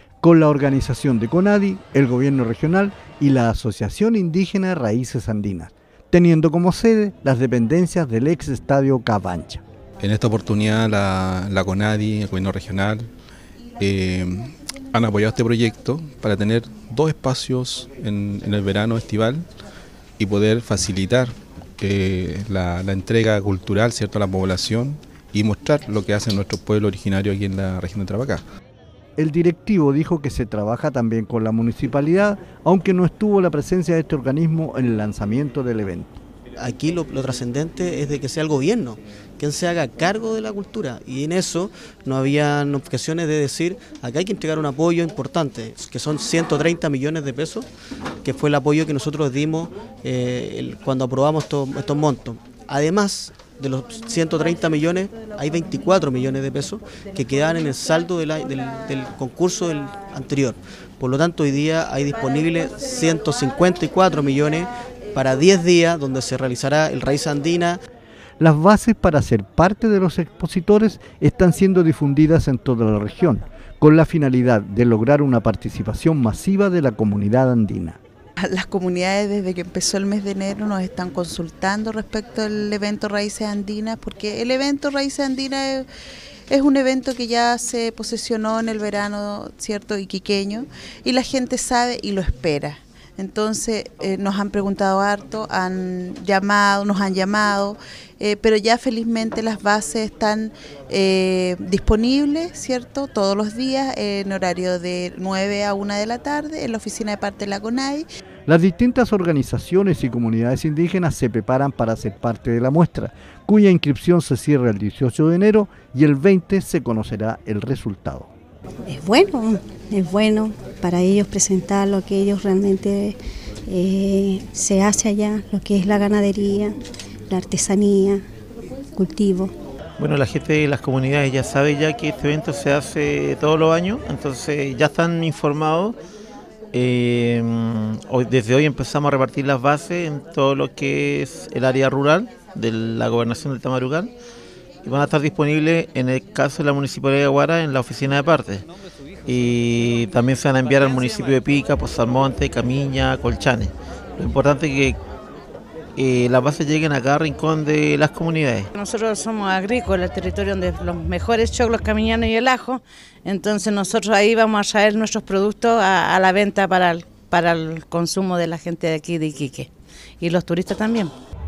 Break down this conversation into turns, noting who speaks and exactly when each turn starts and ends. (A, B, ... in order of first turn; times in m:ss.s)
0:00.2-0:09.6 A
0:10.0-0:13.1 B
0:13.8-0:19.5 B
0:20.2-0:28.4 B
0:29.2-0:36.2 A
0:36.6-0:47.7 C
0:48.2-1:07.8 C
1:08.4-1:18.0 A
1:18.4-1:25.9 D
1:26.5-1:48.0 D
1:48.5-1:58.3 A
1:58.9-2:06.8 E
2:07.3-2:08.2 E
2:08.9-2:09.5 E
2:10.0-2:16.0 F
2:16.7-2:24.1 F
2:24.8-2:28.6 F
2:29.2-2:35.0 F
2:36.0-2:38.7 F
2:38.7-2:51.1 G